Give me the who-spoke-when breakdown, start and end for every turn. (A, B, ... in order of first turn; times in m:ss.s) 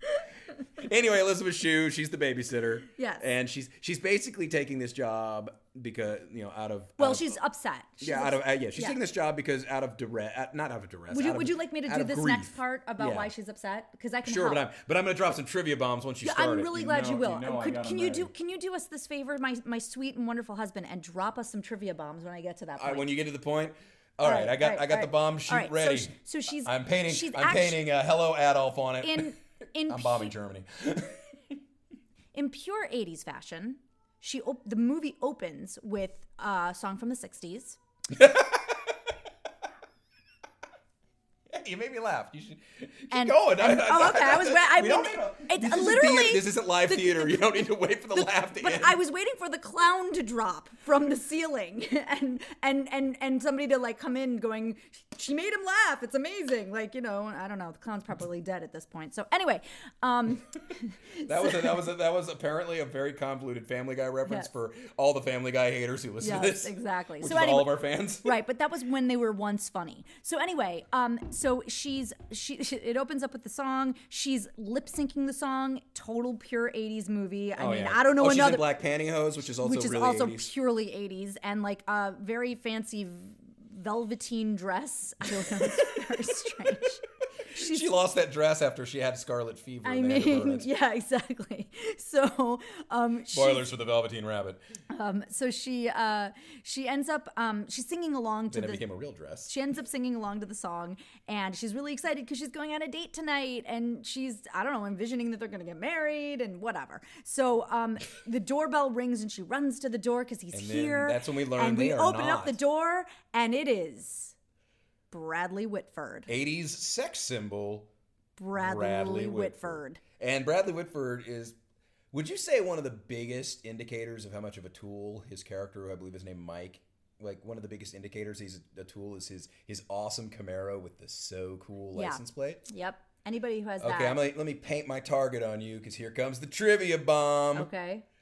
0:00.8-0:07.4 A
0:03.0-0:03.2 B
0:07.0-0:09.0 B
0:08.0-0:13.3 A
0:11.1-0:14.6 B
0:14.2-0:18.3 A
0:16.2-0:23.1 B
0:22.8-0:29.3 A
0:24.2-0:27.8 B
0:29.0-0:30.3 B
0:29.9-0:31.6 A
0:32.3-0:37.8 B
0:38.1-0:39.0 A
0:41.5-0:49.0 A
0:43.1-1:01.8 B
1:01.2-1:08.4 A
1:06.2-1:18.8 B
1:17.6-1:20.5 A
1:19.6-1:28.0 B
1:25.3-1:26.9 A
1:27.4-1:30.7 A
1:29.8-1:33.6 B
1:33.3-1:34.6 A
1:34.9-1:38.8 B
1:38.5-1:39.5 A
1:39.4-1:54.3 B
1:50.5-1:52.6 A
1:55.1-1:56.3 B
1:56.3-1:57.9 A
1:58.4-2:00.0 B
1:58.6-2:01.6 A
2:02.1-2:12.6 A
2:11.9-2:14.2 B
2:13.8-2:17.7 A
2:17.5-2:18.0 B